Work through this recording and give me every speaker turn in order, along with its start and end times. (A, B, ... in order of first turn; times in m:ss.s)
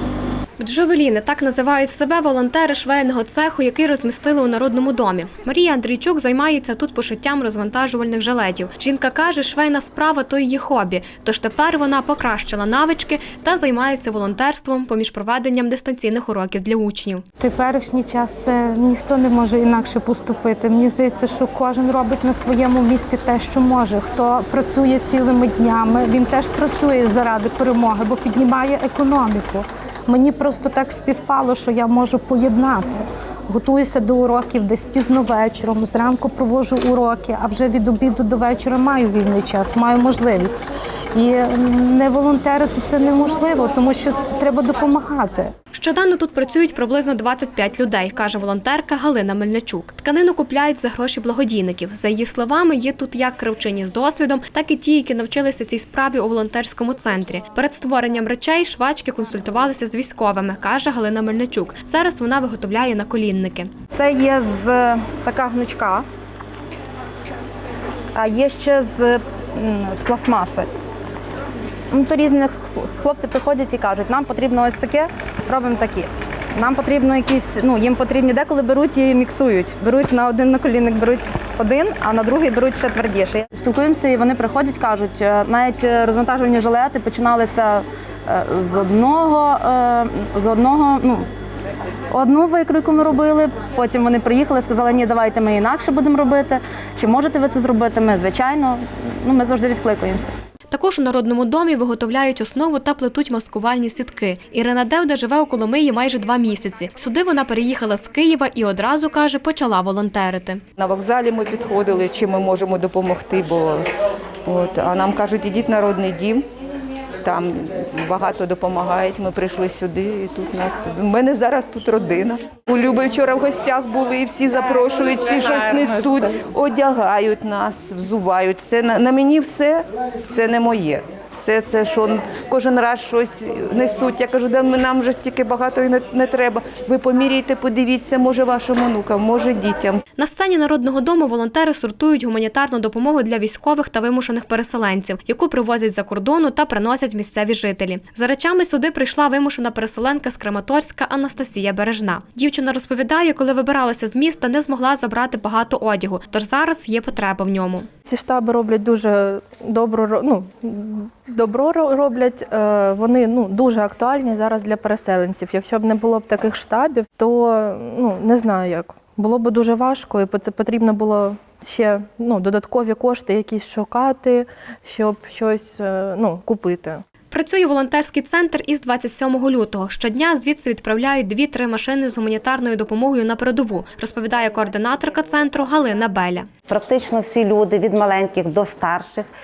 0:00.6-0:17.2 A
0:17.4-0:40.6 B
0:41.1-0:45.5 B
0:45.7-1:03.7 A
1:03.9-1:06.0 C
1:08.1-1:10.7 C
1:11.9-1:31.2 C
1:32.1-1:40.3 C
1:40.7-1:50.6 A
1:50.8-1:53.9 D
1:54.4-1:56.5 D
1:57.2-2:20.0 D
2:20.2-2:37.9 A
2:38.0-2:57.0 E
2:57.3-3:06.5 A
3:06.7-3:09.3 F